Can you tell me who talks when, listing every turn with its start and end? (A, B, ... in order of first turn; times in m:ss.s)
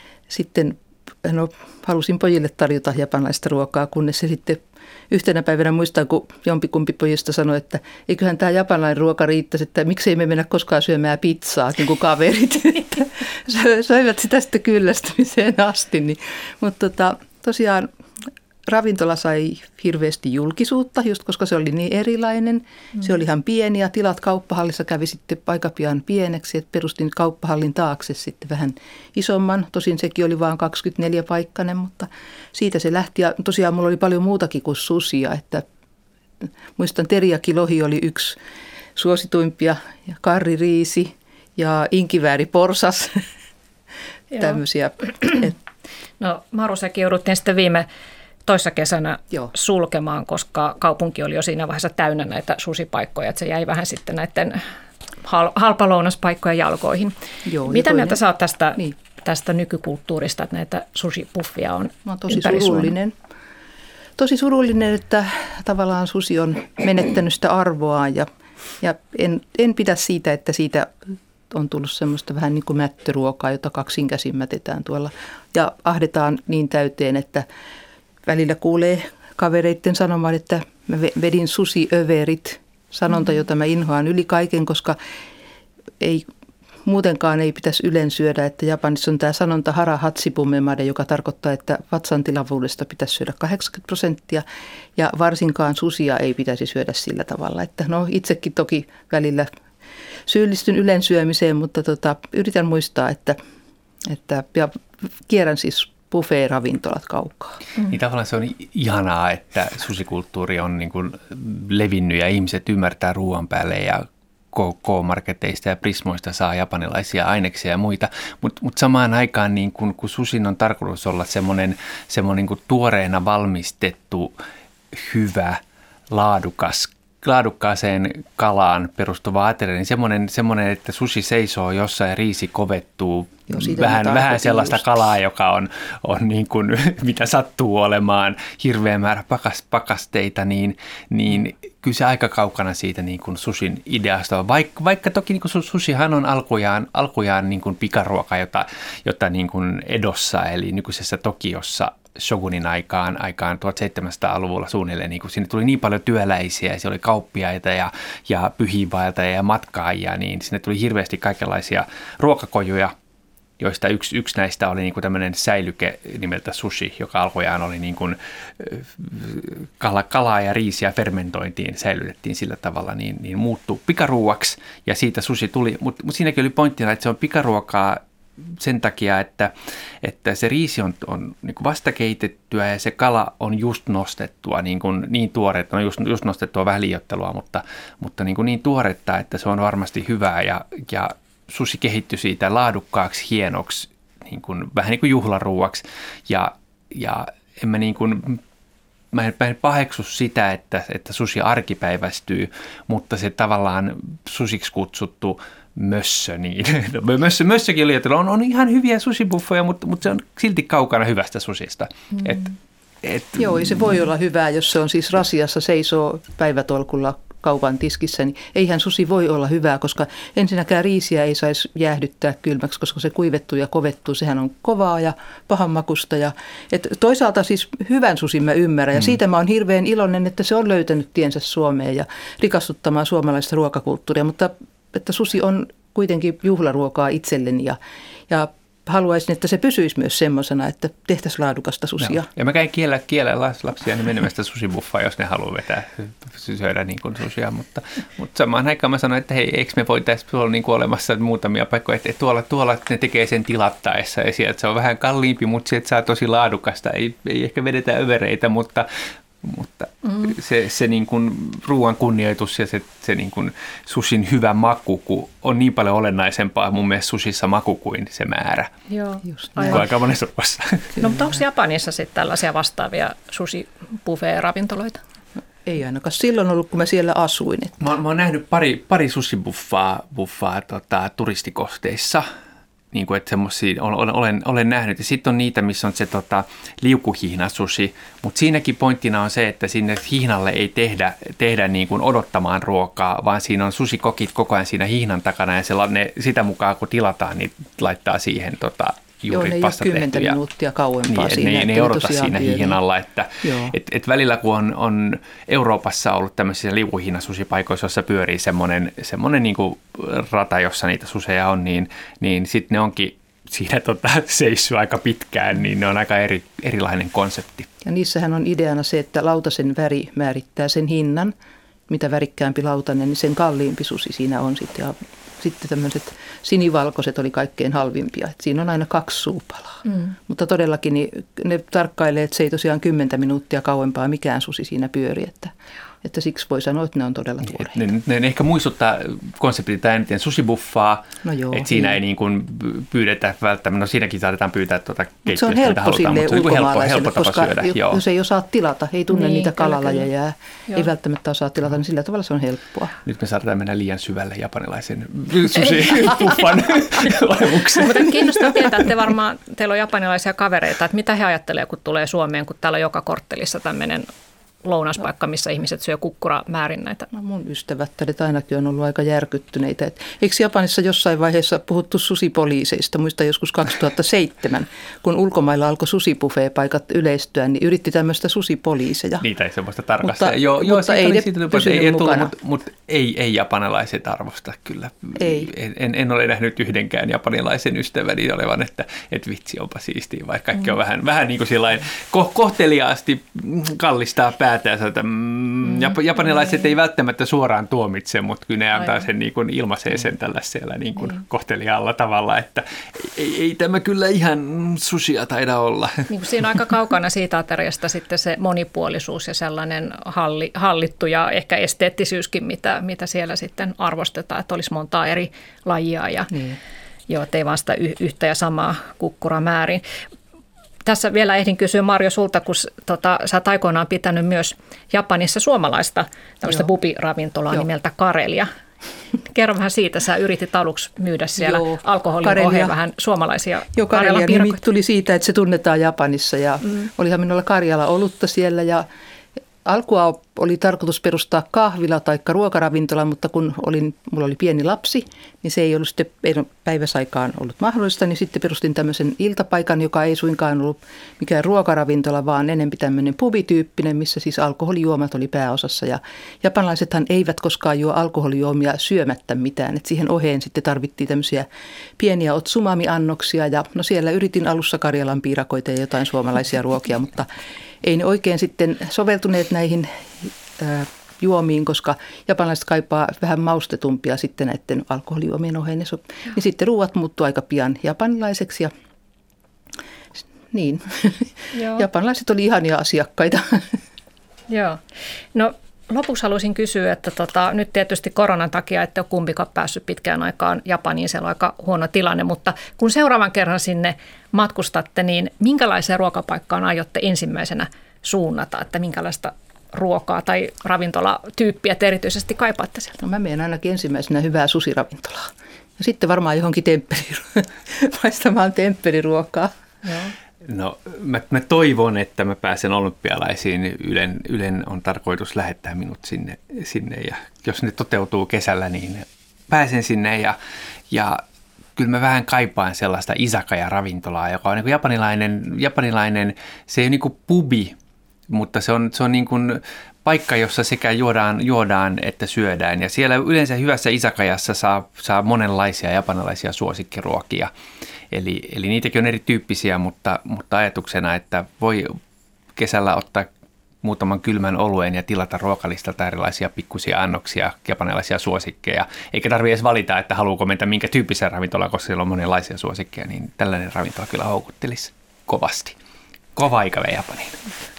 0:00.3-0:17.9 A
0:18.7-0:35.6 A
0:36.4-0:38.4 A
0:39.0-0:43.3 A
0:44.3-0:45.6 A
0:46.2-0:47.9 B
0:48.5-0:54.7 B
0:55.2-1:02.9 B
0:57.4-0:58.2 A
1:02.1-1:03.2 A
1:04.2-1:08.3 A
1:08.8-1:17.5 A
1:18.3-1:25.0 A
1:26.0-1:26.3 A
1:26.8-1:34.4 A
1:35.0-1:39.5 A
1:40.3-1:43.4 A
1:44.0-1:47.6 A
1:47.9-2:04.4 C
2:04.9-2:42.9 C
2:13.5-2:15.0 A
2:43.6-3:18.4 C
3:19.1-3:34.0 C
3:33.4-4:02.3 A
4:02.0-4:18.9 C
4:19.4-4:28.7 C
4:28.9-4:29.9 B
4:29.3-4:29.8 A
4:29.6-4:31.0 C
4:31.0-4:35.0 B
4:35.6-4:37.8 A
4:37.8-4:42.3 C
4:42.9-5:00.4 C
4:59.3-5:02.8 A
5:01.1-5:17.7 C
5:03.4-5:03.7 A
5:17.8-5:21.3 A
5:21.9-5:37.9 A
5:37.5-5:48.0 C
5:41.2-5:42.0 A
5:45.3-5:53.0 A
5:49.1-5:50.0 B
5:53.0-5:58.6 C
5:57.8-6:04.1 B
6:04.6-6:07.1 B
6:07.1-6:19.2 A
6:19.2-6:46.2 C
6:20.0-6:22.3 A
6:25.2-6:25.5 A
6:46.1-6:56.3 B
6:56.3-6:56.6 A
6:57.1-6:59.8 B
7:00.8-7:08.5 B
7:09.2-7:14.6 B
7:11.4-7:12.7 A
7:13.8-7:18.9 A
7:19.6-7:41.5 A
7:42.0-7:47.3 A
7:47.8-7:58.7 A
8:00.5-8:03.8 A
8:01.5-8:01.9 B
8:04.5-8:04.8 B
8:05.3-8:23.0 B
8:23.0-8:29.5 A
8:29.8-8:30.1 B
8:30.4-8:40.4 C
8:40.9-8:41.2 C
8:41.8-8:47.8 C
8:48.3-8:57.5 C
8:58.1-9:02.0 C
9:02.6-9:03.3 C
9:03.8-9:15.8 C
9:16.4-9:17.4 C